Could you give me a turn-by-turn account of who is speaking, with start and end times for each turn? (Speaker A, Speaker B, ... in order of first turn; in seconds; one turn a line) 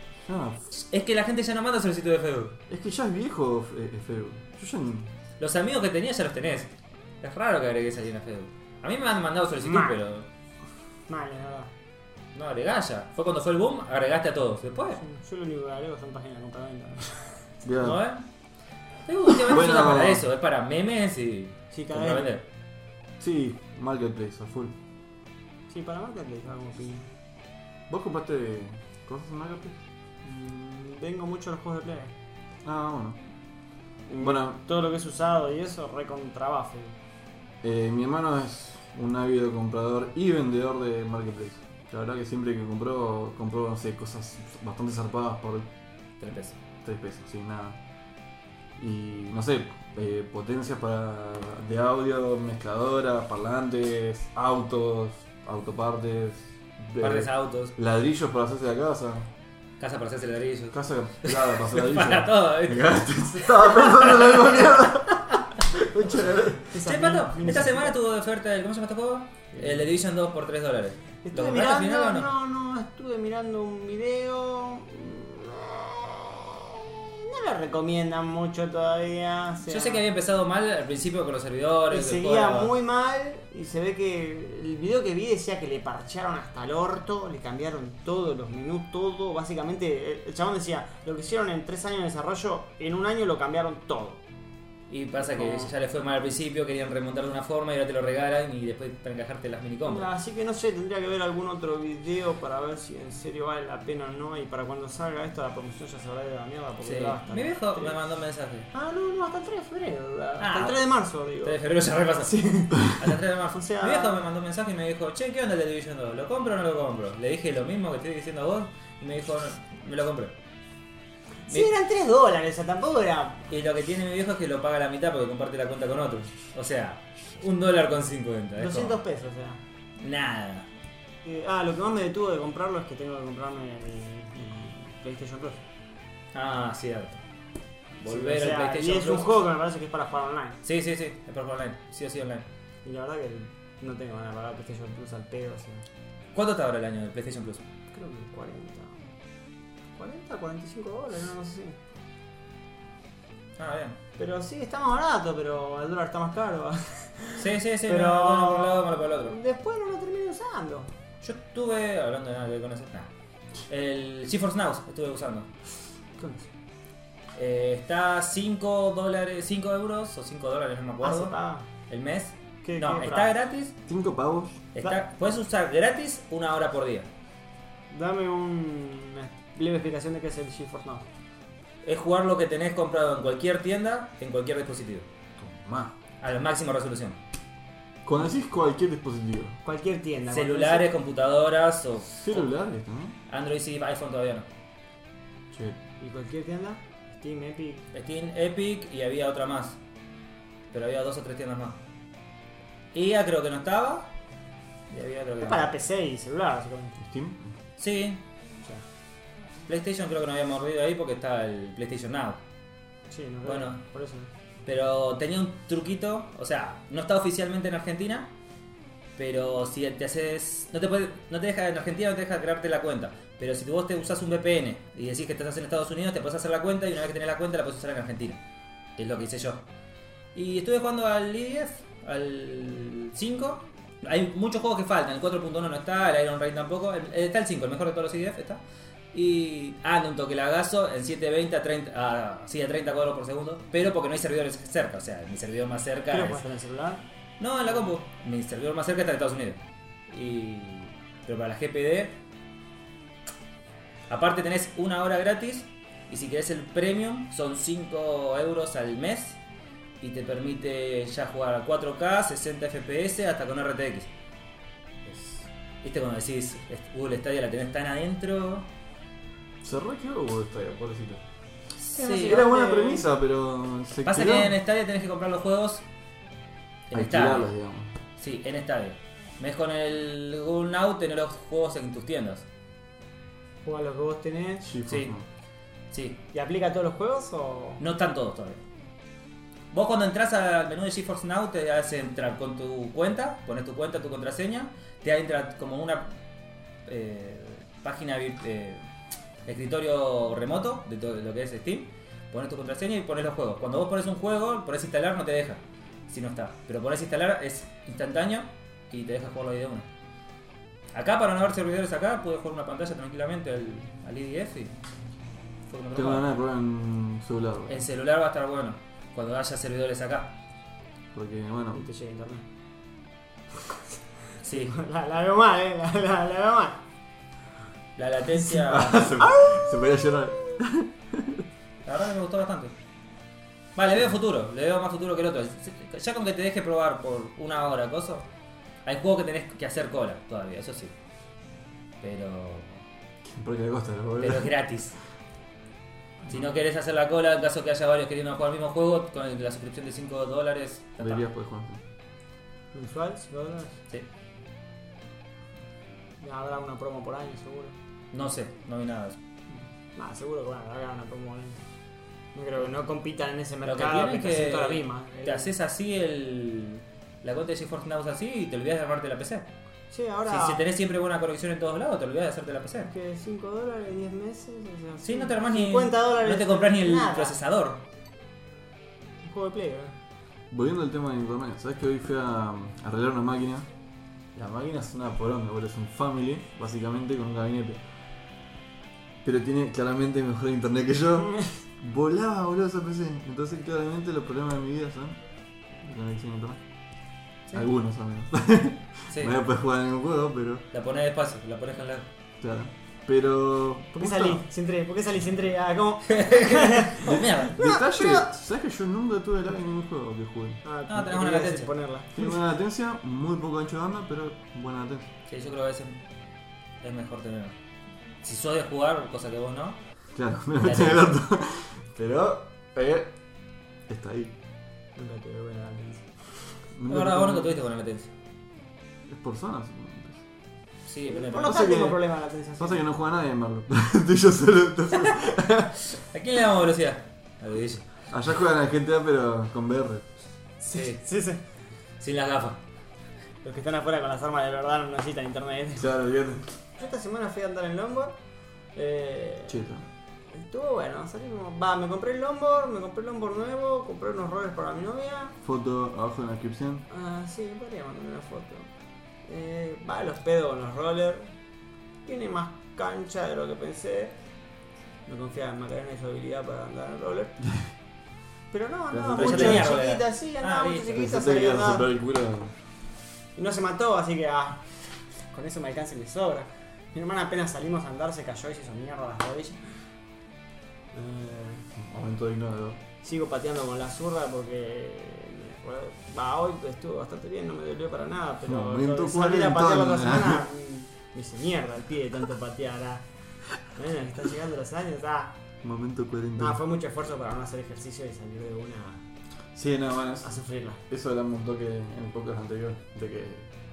Speaker A: 0.2-0.6
Speaker B: 0.9-2.5
Speaker A: 2.7-5.1
Speaker B: 5.4-6.7
Speaker B: 7.2-10.2
Speaker C: 9.6-10.0
Speaker C: 11.1-11.7
Speaker B: 12.3-15.0
Speaker C: 15.0-17.2
Speaker A: 17.6-18.0
Speaker B: 17.8-18.2
Speaker B: 19.1-22.4
Speaker A: 19.3-20.3
Speaker C: 21.7-22.3
Speaker A: 23.2-24.7
Speaker C: 25.7-27.0
Speaker A: 27.9-29.8
Speaker C: 30.2-32.1
Speaker A: 32.6-33.2
Speaker C: 34.1-37.0
Speaker A: 34.2-34.6
Speaker A: 37.6-45.7
Speaker B: 46.2-46.5
Speaker A: 46.8-47.8
Speaker A: 48.8-59.3
Speaker B: 57.0-57.7
Speaker B: 59.8-64.8
Speaker A: 60.7-66.7
Speaker C: 65.9-68.0
Speaker B: 66.8-72.3
Speaker C: 69.5-69.9
Speaker C: 71.2-80.0
Speaker B: 79.7-82.7
Speaker C: 81.9-94.2
Speaker B: 94.9-100.1
Speaker C: 95.2-95.7
Speaker C: 99.8-108.0
Speaker B: 106.8-108.7
Speaker C: 108.7-111.6
Speaker B: 110.4-120.3
Speaker C: 112.3-112.9
Speaker C: 113.5-114.2
Speaker C: 121.5-123.4
Speaker B: 123.5-129.0
Speaker C: 128.6-129.6
Speaker B: 130.0-130.7
Speaker C: 131.2-135.6
Speaker B: 136.3-137.2
Speaker B: 138.0-139.3
Speaker C: 138.0-140.6
Speaker B: 140.6-142.4
Speaker C: 142.8-145.8
Speaker B: 146.3-147.6
Speaker C: 147.9-149.0
Speaker C: 150.0-151.8
Speaker B: 153.6-154.0
Speaker C: 154.2-160.9
Speaker B: 157.4-159.3
Speaker B: 161.2-163.1
Speaker B: 163.7-165.5
Speaker C: 166.2-166.5
Speaker B: 167.3-171.3
Speaker C: 171.0-171.7
Speaker B: 171.9-173.7
Speaker C: 172.6-173.3
Speaker A: 173.9-174.6
Speaker B: 174.8-177.1
Speaker C: 177.9-181.1
Speaker B: 181.8-185.1
Speaker A: 185.4-185.9
Speaker B: 186.2-187.2
Speaker A: 188.0-189.6
Speaker C: 189.6-190.9
Speaker B: 190.3-192.5
Speaker A: 192.1-193.2
Speaker B: 193.3-194.5
Speaker A: 195.5-195.8
Speaker C: 196.0-197.8
Speaker B: 197.9-199.8
Speaker B: 200.7-201.8
Speaker B: 202.9-204.1
Speaker B: 204.9-205.7
Speaker C: 205.4-207.0
Speaker A: 207.0-207.5
Speaker B: 207.8-208.2
Speaker B: 209.7-212.4
Speaker C: 213.1-214.3
Speaker B: 213.4-213.8
Speaker B: 214.7-218.3
Speaker B: 219.2-228.4
Speaker B: 229.0-229.6
Speaker B: 230.3-238.6
Speaker B: 239.1-246.4
Speaker C: 246.1-247.0
Speaker B: 247.4-252.2
Speaker B: 254.1-259.4
Speaker B: 260.0-264.1
Speaker B: 265.1-268.7
Speaker A: 269.6-271.2
Speaker C: 271.9-273.1
Speaker B: 271.9-272.4
Speaker A: 272.2-274.6
Speaker B: 274.0-275.8
Speaker B: 276.9-277.5
Speaker A: 276.9-277.9
Speaker B: 278.2-282.4
Speaker C: 283.6-284.7
Speaker A: 284.6-285.2
Speaker B: 284.9-285.1
Speaker B: 285.9-286.2
Speaker C: 286.3-287.8
Speaker B: 287.8-288.6
Speaker B: 289.7-296.1
Speaker B: 296.9-298.8
Speaker B: 299.4-309.9
Speaker B: 310.9-314.7
Speaker B: 315.7-316.3
Speaker A: 315.9-317.8
Speaker B: 317.7-320.4
Speaker A: 321.1-321.8
Speaker C: 321.7-322.4
Speaker B: 324.4-324.7
Speaker C: 324.5-326.8
Speaker B: 327.9-329.1
Speaker A: 328.5-331.4
Speaker C: 329.2-329.8
Speaker B: 331.8-332.7
Speaker B: 333.8-338.3
Speaker B: 338.8-340.9
Speaker B: 342.0-342.8
Speaker A: 343.2-344.5
Speaker B: 344.2-345.0
Speaker B: 346.3-351.2
Speaker A: 351.0-351.8
Speaker C: 352.7-353.8
Speaker C: 356.2-357.8
Speaker B: 358.1-359.2
Speaker C: 359.9-361.6
Speaker C: 362.3-365.5
Speaker B: 363.6-369.5
Speaker C: 369.9-370.6
Speaker B: 370.2-372.9
Speaker C: 372.9-377.4
Speaker B: 375.0-377.8
Speaker C: 379.2-379.9
Speaker A: 380.5-383.7
Speaker A: 384.3-387.8
Speaker A: 389.2-395.2
Speaker A: 395.8-396.6
Speaker A: 397.5-400.6
Speaker B: 399.1-399.4
Speaker B: 400.7-402.1
Speaker A: 402.4-404.4
Speaker C: 403.9-408.3
Speaker B: 406.1-407.6
Speaker A: 407.1-410.6
Speaker C: 410.6-412.4
Speaker B: 410.9-411.7
Speaker A: 412.1-415.1
Speaker B: 415.3-416.0
Speaker B: 416.8-417.5
Speaker B: 418.2-419.8
Speaker A: 420.1-423.1
Speaker B: 420.6-421.1
Speaker A: 423.9-424.3
Speaker C: 424.9-426.1
Speaker A: 426.8-427.6
Speaker B: 426.9-428.1
Speaker A: 429.1-430.2
Speaker B: 430.9-431.7
Speaker C: 431.1-432.8
Speaker A: 431.4-432.0
Speaker A: 432.6-435.7
Speaker B: 435.9-437.9
Speaker A: 438.1-440.1
Speaker C: 440.6-441.4
Speaker B: 440.7-441.0
Speaker B: 442.0-442.6
Speaker C: 443.4-445.9
Speaker A: 445.8-446.5
Speaker C: 446.8-448.1
Speaker C: 448.7-449.6
Speaker A: 449.5-449.9
Speaker C: 450.3-455.4
Speaker A: 455.4-456.8
Speaker C: 456.9-458.7
Speaker C: 459.2-461.3
Speaker C: 462.0-464.1
Speaker C: 465.1-467.4
Speaker C: 468.5-471.9
Speaker A: 468.9-469.7
Speaker B: 469.1-470.9
Speaker A: 470.9-472.5
Speaker C: 473.4-474.6
Speaker C: 475.3-479.6
Speaker C: 480.9-481.7
Speaker A: 481.8-482.8
Speaker C: 483.0-493.0
Speaker A: 488.4-490.4
Speaker C: 493.7-495.4
Speaker A: 495.6-496.6
Speaker C: 496.4-499.0
Speaker A: 499.5-500.3
Speaker C: 500.2-500.8
Speaker A: 500.9-503.5